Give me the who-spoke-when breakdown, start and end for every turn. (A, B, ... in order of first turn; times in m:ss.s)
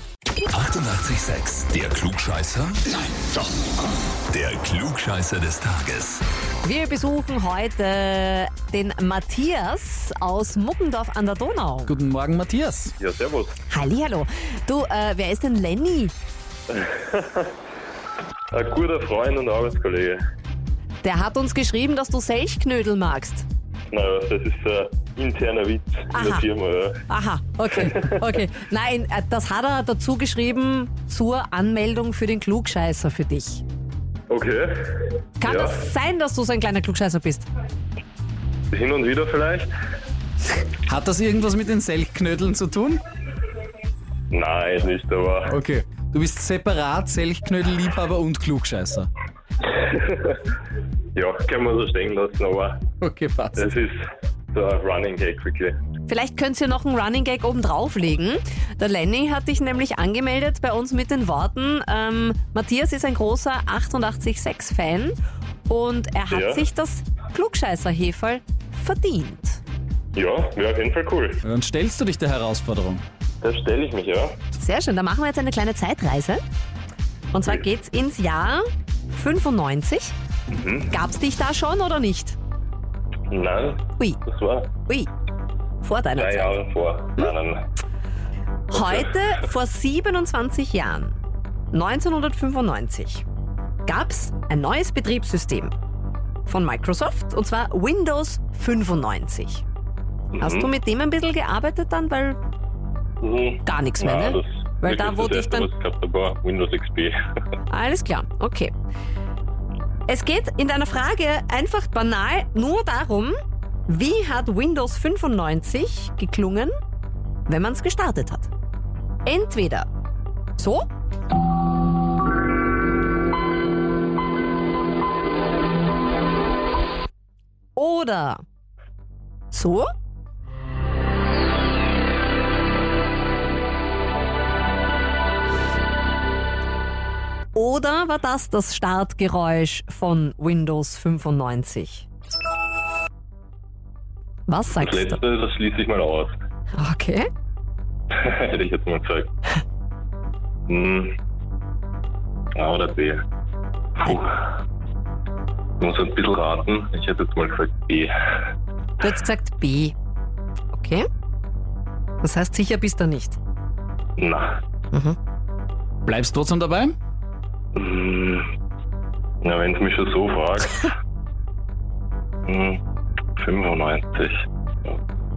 0:00.5-0:03.4 A
0:04.3-0:06.2 A
0:06.6-0:11.9 B
0:11.9-0:12.9 C
0:13.0-0:13.6 D
0:13.7-0:16.1 B
0:16.7-0:17.5 D
0:18.5-0:20.2 D
0:21.0-0:23.4 B
0:23.9-0:27.0 D
0:26.1-0:26.4 B
0:27.1-0:33.6 B
0:27.8-0:28.1 D
0:34.3-0:35.8 D
0:35.4-0:37.5 B
0:38.7-0:39.7 D
0:40.8-0:43.0 C
0:44.3-0:45.6 D
0:45.4-0:49.1 C
0:49.8-0:50.4 D
0:51.1-0:52.8 D
0:53.0-0:53.7 C
0:53.6-0:55.8 D
0:56.1-1:09.6 B
1:06.3-1:06.7 D
1:10.1-1:11.4 D
1:11.4-1:13.0 C
1:13.4-1:14.4 D
1:14.5-1:16.4 B
1:17.3-1:20.1 B
1:20.5-1:20.9 D
1:20.9-1:22.4 B
1:23.3-1:24.7 D
1:25.8-1:26.6 B
1:26.2-1:27.7 D
1:28.7-1:31.1 B
1:28.7-1:29.1 D
1:31.7-1:33.2 B
1:33.8-1:35.7 B
1:36.4-1:39.6 B
1:40.3-1:40.7 D
1:40.4-1:42.4 B
1:43.2-1:47.2 D
1:43.6-1:45.7 B
1:47.7-1:48.7 B
1:50.1-1:53.4 B
1:53.9-1:56.7 B
1:57.5-1:58.5 B
1:59.2-1:59.9 B
2:00.6-2:00.8 B
2:07.7-2:08.4 B
2:09.5-2:09.9 B
2:17.5-2:22.0 B
2:24.5-2:25.2 B
2:24.8-2:26.3 D
2:26.8-2:27.3 B
2:28.1-2:29.3 D
2:30.7-2:31.2 D
2:32.6-2:33.2 D
2:34.0-2:34.3 D
2:35.8-2:38.1 D
2:39.0-2:39.9 B
2:40.7-2:41.1 B
2:42.2-2:43.4 B
2:44.2-2:44.6 D
2:44.9-2:45.2 B
2:46.0-2:46.9 C
2:47.7-2:48.5 D
2:49.4-2:50.9 D
2:52.4-2:52.8 D
2:53.4-2:54.9 D